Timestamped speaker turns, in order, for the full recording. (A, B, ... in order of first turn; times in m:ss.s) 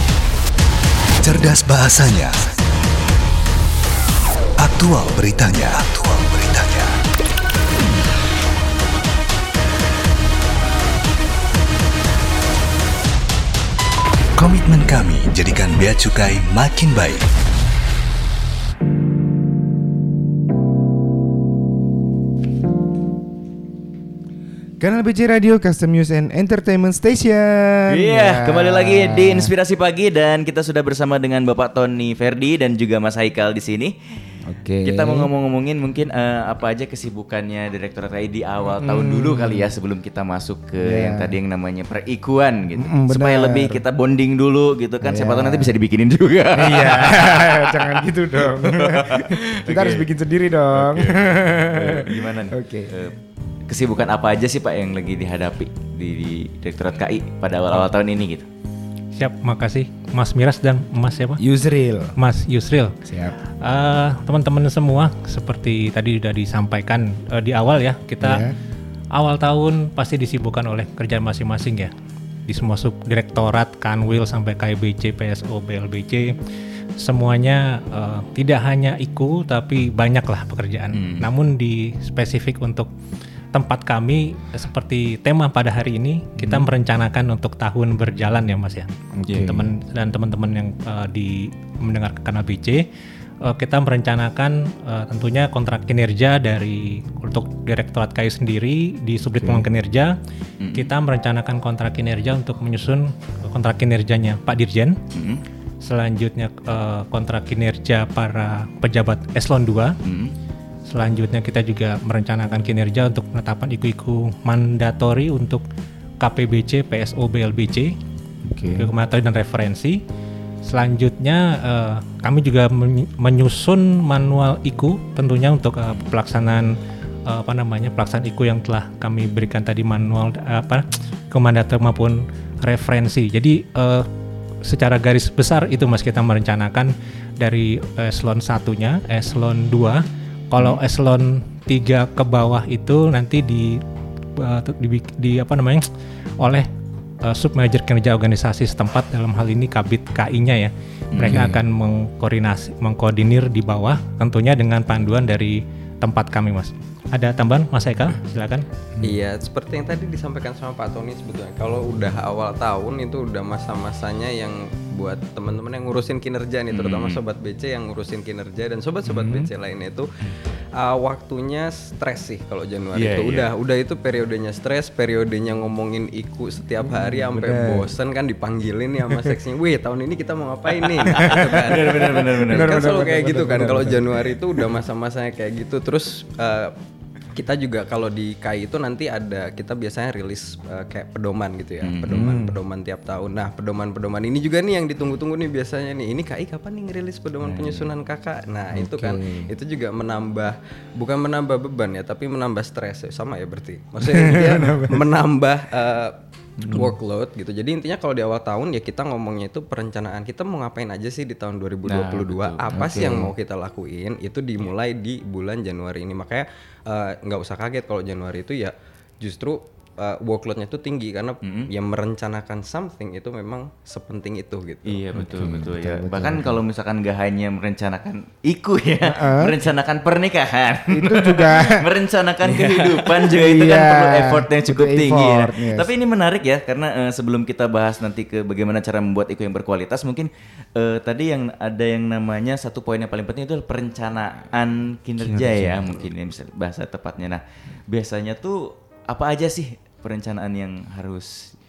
0:01.2-0:02.3 A
0:04.6-0:06.9 A
0:14.4-0:17.3 A
0:24.8-0:29.5 B
0:27.9-0:33.9 C
0:34.4-0:35.3 B
0:34.8-0:50.1 C
0:38.8-0:39.7 B
0:40.8-0:41.3 B
0:42.8-0:43.8 B
0:45.0-0:45.8 B
0:46.5-0:52.9 B
0:50.7-0:53.2 C
0:53.7-0:58.5 C
0:59.1-1:01.4 D
1:01.4-1:02.1 B
1:02.2-1:02.9 D
1:03.0-1:03.4 B
1:03.6-1:08.4 D
1:08.2-1:08.5 B
1:09.1-1:11.9 D
1:12.5-1:16.3 D
1:17.0-1:22.9 D
1:20.9-1:21.3 C
1:23.5-1:32.8 D
1:26.4-1:26.7 B
1:29.1-1:29.7 B
1:33.4-1:40.2 D
1:39.4-1:39.7 B
1:40.6-1:40.9 C
1:40.7-1:45.0 D
1:45.1-1:45.4 C
1:45.8-1:50.0 D
1:50.0-1:50.3 C
1:50.8-1:55.6 D
1:56.2-1:57.9 D
1:58.4-1:58.9 B
1:58.7-2:00.0 D
2:00.6-2:14.1 D
2:14.6-2:23.8 D
2:24.4-2:25.8 D
2:26.4-2:26.7 D
2:27.2-2:38.6 D
2:31.1-2:31.5 C
2:31.2-2:31.6 B
2:39.0-2:50.1 E
2:46.7-2:47.2 C
2:49.0-2:49.5 B
2:50.7-3:06.7 E
2:52.9-2:53.5 C
2:56.8-2:57.9 B
3:00.7-3:02.9 C
3:01.2-3:04.5 B
3:07.3-3:45.2 E
3:11.8-3:12.4 C
3:12.1-3:12.6 B
3:17.4-3:17.9 C
3:18.7-3:19.5 B
3:24.0-3:25.0 B
3:26.6-3:26.9 B
3:31.8-3:32.8 C
3:32.7-3:33.3 B
3:41.4-3:41.7 C
3:44.8-4:11.5 C
3:45.1-3:46.6 B
3:49.0-3:49.7 B
3:50.9-3:51.8 B
3:52.5-3:53.2 E
3:53.3-3:55.9 B
4:05.2-4:06.1 B